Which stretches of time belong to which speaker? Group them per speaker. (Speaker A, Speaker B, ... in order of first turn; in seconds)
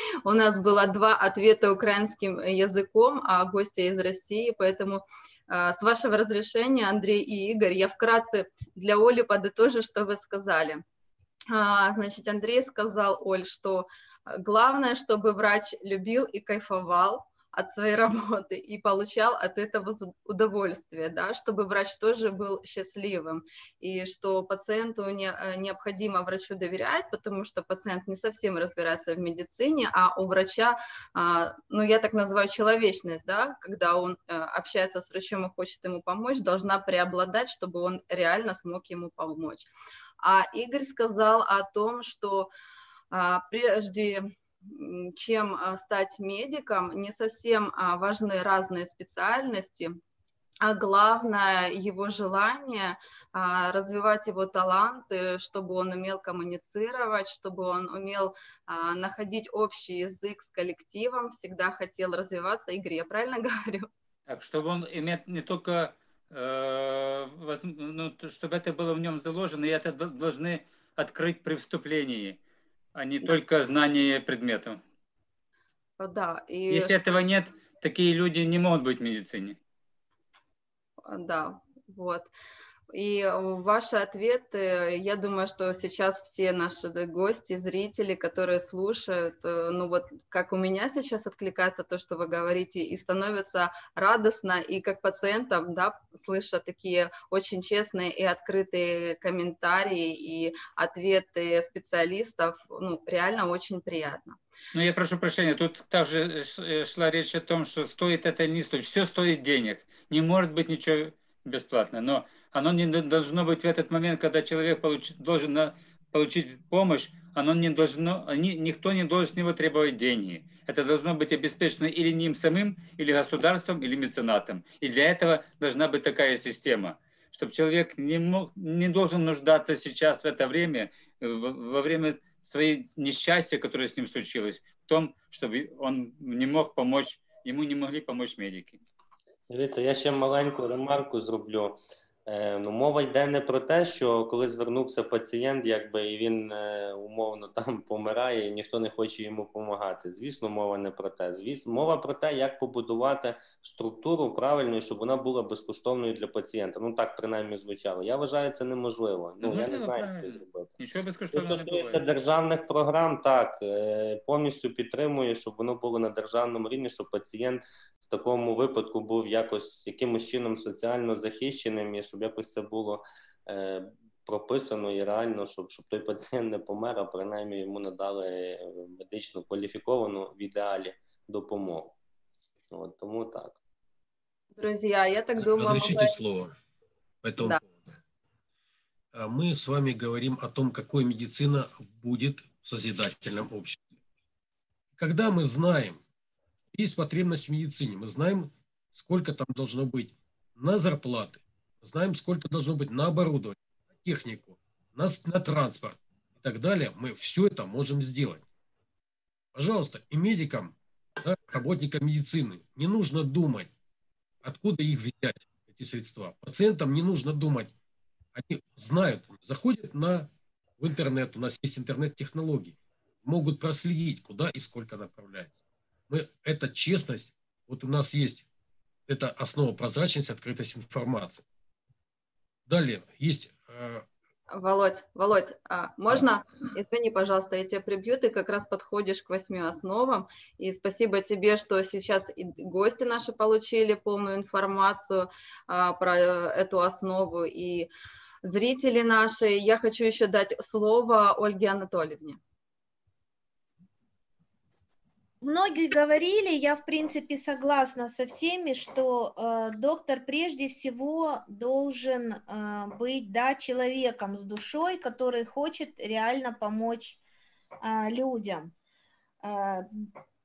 Speaker A: 0.2-10.8, 11.5-39.7, 40.2-42.5, 43.1-50.0, 50.6-63.9, 76.0-77.2, 81.0-82.3, 82.9-104.4, 184.6-186.2, 234.5-247.9, 248.4-252.4
Speaker B: 64.3-72.4, 72.9-74.8, 76.7-79.6, 104.7-138.8, 159.4-162.0
Speaker C: 139.5-160.7, 161.3-181.9, 182.7-183.6
Speaker D: 185.4-186.5, 187.2-187.8, 189.1-193.8, 195.0-196.0, 196.7-208.4, 209.5-213.7, 214.4-217.7, 218.3-228.4, 229.1-231.4, 232.7-234.1
Speaker E: 255.4-267.2, 267.8-268.7, 269.4-270.1